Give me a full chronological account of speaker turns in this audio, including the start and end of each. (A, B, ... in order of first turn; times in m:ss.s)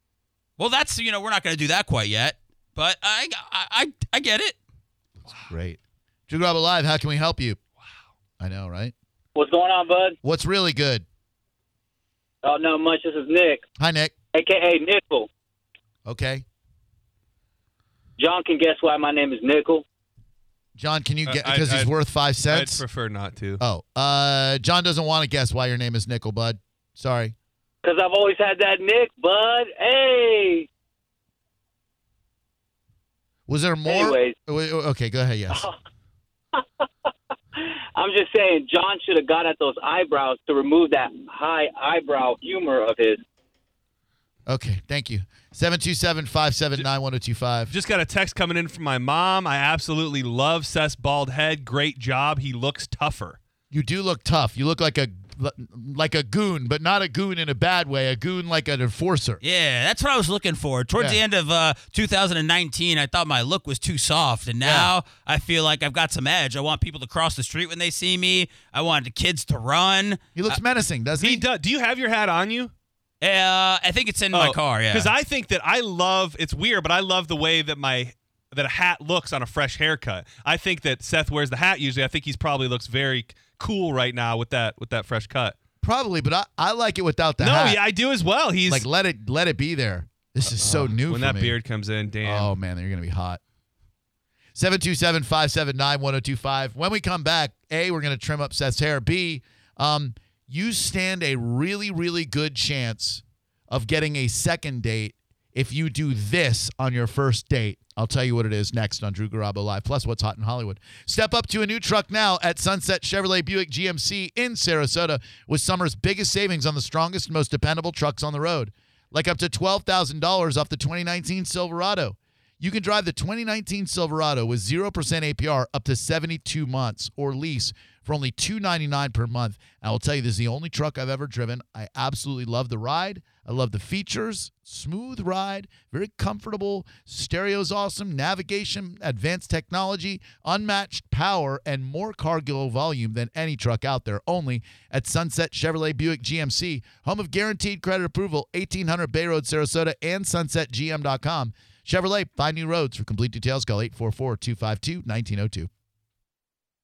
0:00.6-0:04.6 A
0:05.2-0:07.6 B
0:05.3-0:05.5 C
0:08.4-0:08.9 B
0:09.4-0:10.2 D
0:10.2-0:11.0 B
0:12.4-0:13.6 D
0:13.8-0:14.1 B
0:14.3-0:15.3 D
0:16.0-0:16.4 B
0:18.2-0:19.8 D
0:20.8-0:22.8 B
0:21.2-0:23.6 C
0:23.6-0:27.3 B
0:27.8-0:30.7 D
0:33.5-0:35.6 B
0:33.8-0:34.3 D
0:36.5-0:36.8 D
0:37.6-0:43.2 D
0:44.5-0:47.7 B
0:47.7-0:53.4 C
0:53.7-0:59.4 B
0:59.4-1:10.6 A
1:04.6-1:04.9 B
1:10.3-1:11.4 B
1:11.2-1:12.7 C
1:13.2-1:15.1 A
1:14.3-1:25.6 C
1:25.8-1:27.8 B
1:27.4-1:28.9 C
1:28.6-1:31.6 B
1:30.4-1:32.6 C
1:32.2-1:33.4 B
1:34.5-2:35.7 B